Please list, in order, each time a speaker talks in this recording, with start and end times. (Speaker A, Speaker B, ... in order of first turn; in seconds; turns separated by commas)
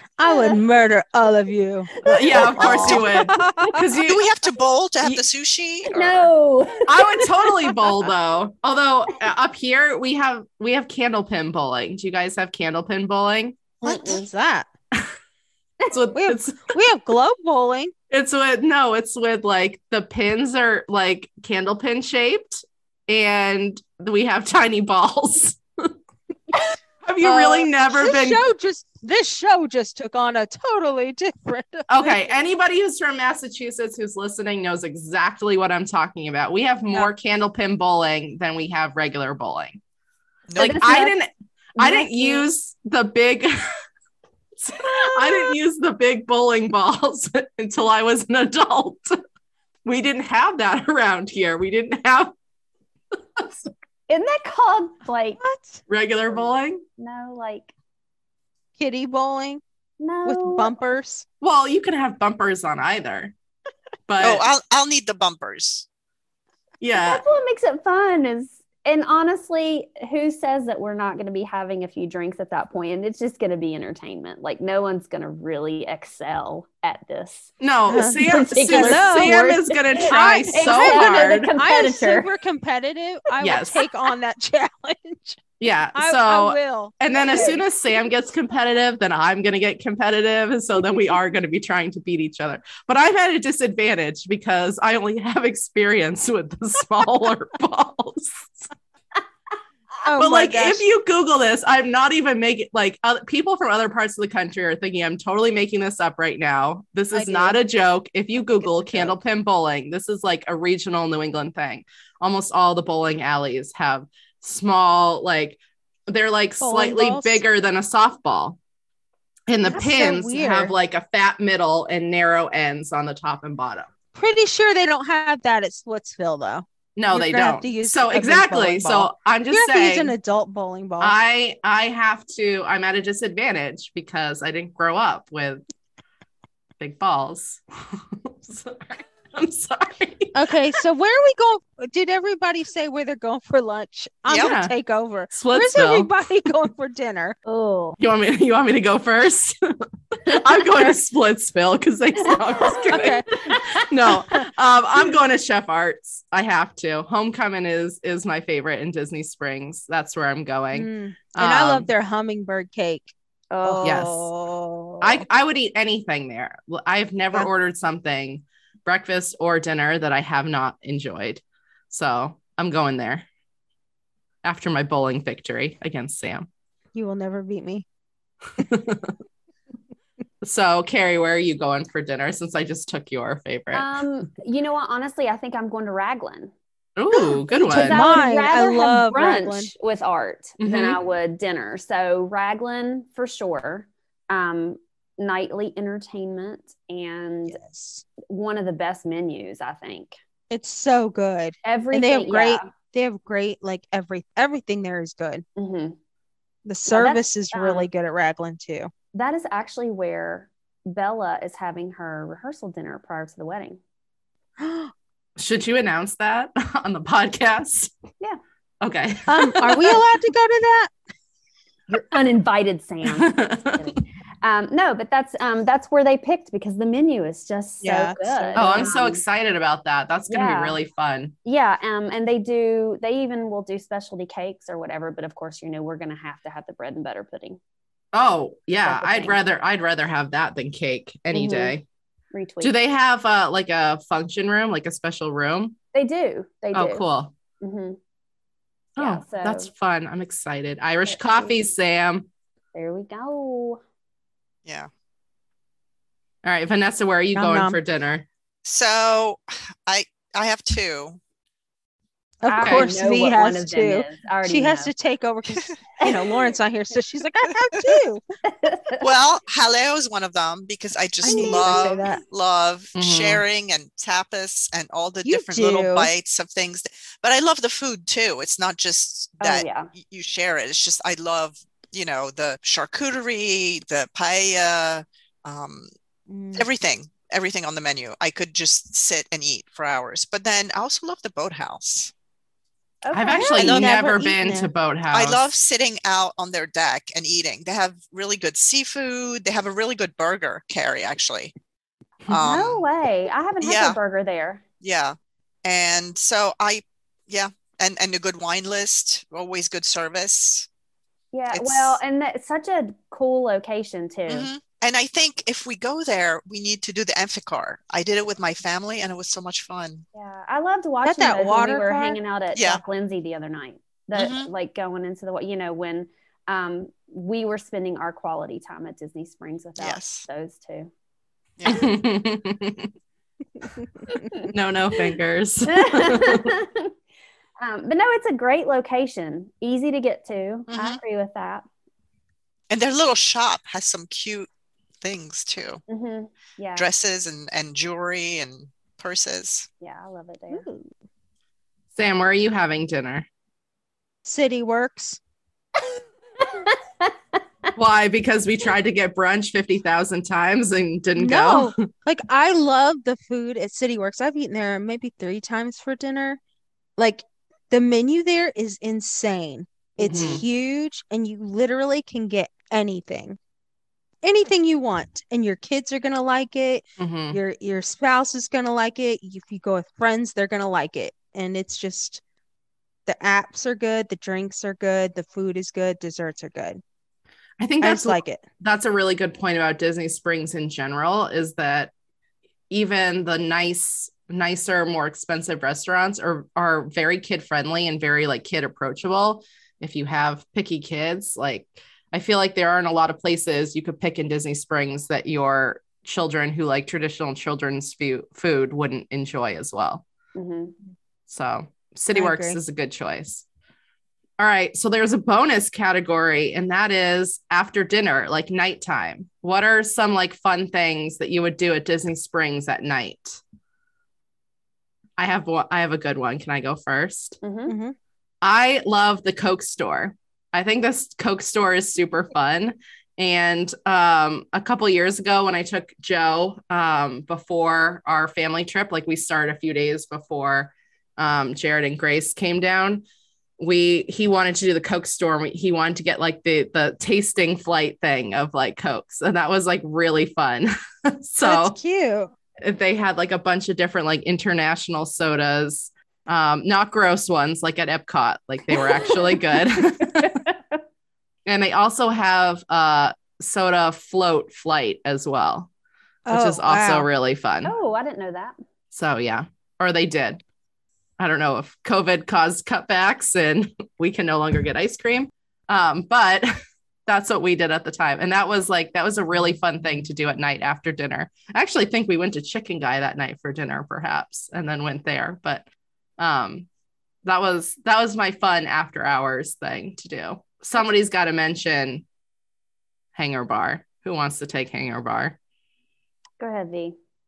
Speaker A: 0.2-3.8, Speaker B: 0.2-0.6, Speaker B: 2.0-3.0, Speaker C: 2.0-4.2, Speaker D: 4.1-6.3, Speaker B: 5.9-7.7, Speaker C: 6.9-13.6, Speaker A: 13.8-14.7, Speaker B: 13.8-14.2, Speaker C: 15.9-16.8, Speaker A: 16.1-17.9, Speaker C: 18.1-25.9, Speaker C: 27.0-28.4, Speaker A: 27.2-32.3, Speaker C: 31.9-39.8, Speaker D: 40.5-40.8, Speaker B: 40.6-41.2, Speaker C: 40.6-43.7, Speaker B: 41.8-42.5, Speaker C: 44.6-49.2, Speaker B: 44.9-45.2, Speaker C: 49.8-52.3, Speaker B: 54.1-55.4, Speaker A: 55.4-55.8, Speaker C: 55.9-56.8, Speaker B: 56.3-57.7, Speaker A: 58.8-59.6, Speaker B: 60.0-60.7, Speaker A: 60.2-61.2, Speaker C: 61.4-63.3, Speaker C: 64.1-64.4, Speaker D: 64.2-65.8, Speaker C: 66.8-67.2, Speaker B: 67.0-77.5, Speaker C: 77.6-81.5, Speaker A: 77.9-79.4, Speaker B: 78.1-82.3, Speaker A: 80.1-85.4, Speaker C: 83.4-83.8, Speaker C: 85.6-98.7, Speaker A: 85.9-87.6, Speaker B: 87.2-87.6, Speaker A: 100.0-100.8, Speaker C: 100.2-118.6, Speaker A: 107.1-107.6, Speaker A: 108.6-109.2, Speaker A: 116.6-117.4, Speaker C: 119.5-123.9, Speaker A: 119.6-120.7, Speaker A: 124.1-131.2, Speaker C: 127.0-130.1, Speaker C: 131.0-135.6, Speaker C: 136.8-140.3, Speaker A: 140.3-147.4, Speaker D: 144.3-144.5, Speaker C: 144.3-144.7, Speaker C: 145.3-146.1, Speaker B: 147.4-148.0, Speaker C: 148.0-149.6, Speaker C: 150.2-161.9, Speaker B: 152.5-153.8, Speaker A: 152.9-153.2, Speaker A: 160.7-165.2, Speaker B: 163.5-164.1, Speaker C: 163.8-164.3, Speaker C: 165.0-173.2, Speaker C: 174.4-176.5, Speaker A: 176.9-177.8, Speaker C: 178.6-179.1, Speaker C: 180.4-184.0, Speaker B: 183.7-186.5, Speaker C: 187.0-188.1, Speaker B: 187.5-197.6, Speaker A: 187.7-189.7, Speaker C: 190.6-191.0, Speaker A: 197.5-198.0, Speaker B: 198.2-200.1, Speaker A: 200.5-205.4, Speaker B: 201.6-202.7, Speaker B: 205.6-206.0, Speaker A: 206.6-208.9, Speaker B: 206.9-207.9, Speaker B: 209.1-213.8, Speaker A: 214.6-214.9, Speaker C: 215.4-217.9, Speaker C: 218.8-220.0, Speaker A: 219.3-220.9, Speaker B: 221.9-229.2, Speaker C: 223.1-223.8, Speaker A: 227.8-228.9, Speaker C: 228.5-231.3, Speaker B: 230.3-230.8, Speaker B: 231.4-237.6, Speaker C: 238.1-241.8, Speaker B: 238.8-239.4, Speaker B: 241.3-241.7, Speaker B: 242.3-242.7, Speaker C: 242.6-245.8, Speaker B: 245.9-247.0, Speaker C: 246.7-247.3, Speaker B: 247.6-248.0, Speaker B: 249.0-249.7, Speaker C: 249.0-252.3, Speaker B: 251.1-251.6, Speaker B: 252.7-253.8, Speaker C: 256.4-258.2, Speaker A: 257.3-257.8, Speaker D: 258.6-261.2, Speaker A: 262.4-268.2, Speaker B: 262.5-264.9, Speaker C: 262.6-262.9, Speaker B: 268.4-269.0, Speaker D: 269.0-285.9, Speaker B: 271.2-272.1, Speaker A: 271.2-272.2, Speaker C: 272.9-273.4, Speaker A: 275.2-276.1, Speaker B: 279.4-279.9, Speaker A: 286.3-286.7, Speaker D: 286.5-292.1, Speaker B: 293.0-293.8, Speaker C: 293.1-295.4, Speaker A: 293.4-294.7, Speaker D: 293.6-293.9, Speaker D: 295.1-301.5, Speaker D: 302.3-302.8, Speaker B: 302.3-304.6, Speaker D: 303.6-304.0, Speaker D: 304.8-310.7, Speaker B: 311.3-314.5, Speaker D: 311.5-312.0, Speaker D: 314.3-320.0, Speaker B: 320.1-330.9, Speaker A: 321.0-322.2, Speaker D: 322.5-322.8, Speaker D: 324.1-324.5, Speaker D: 329.8-330.2, Speaker D: 331.6-331.9, Speaker C: 331.6-332.9, Speaker B: 334.1-334.5, Speaker C: 334.4-336.5, Speaker B: 335.7-336.9, Speaker B: 337.6-341.6, Speaker D: 340.7-341.0, Speaker D: 342.7-344.5, Speaker D: 345.0-345.8, Speaker B: 345.9-346.9, Speaker D: 346.8-349.7, Speaker B: 349.8-350.7, Speaker A: 350.5-350.8, Speaker C: 351.9-353.3, Speaker A: 354.2-355.2, Speaker B: 356.4-357.1, Speaker C: 357.8-361.8, Speaker A: 361.1-366.4, Speaker A: 367.0-373.4, Speaker B: 370.0-370.4, Speaker C: 370.0-370.4, Speaker A: 374.2-382.2, Speaker C: 377.0-377.4, Speaker A: 383.1-386.8, Speaker C: 387.6-391.9, Speaker A: 387.8-388.4, Speaker C: 392.7-410.0, Speaker B: 410.3-410.7, Speaker C: 411.3-413.4, Speaker A: 412.1-412.6, Speaker C: 414.4-423.4, Speaker C: 425.2-427.4, Speaker B: 427.4-427.7, Speaker A: 427.7-427.9, Speaker C: 428.4-443.0, Speaker C: 443.6-451.8, Speaker A: 451.4-452.3, Speaker C: 452.6-460.4, Speaker B: 460.2-460.7, Speaker C: 461.4-465.7, Speaker A: 466.2-467.1, Speaker C: 466.3-467.7, Speaker B: 467.6-468.6, Speaker C: 468.9-470.4, Speaker C: 471.2-476.5, Speaker C: 477.1-485.6, Speaker C: 486.2-486.7, Speaker C: 487.2-492.0, Speaker C: 493.1-495.4, Speaker B: 496.4-496.9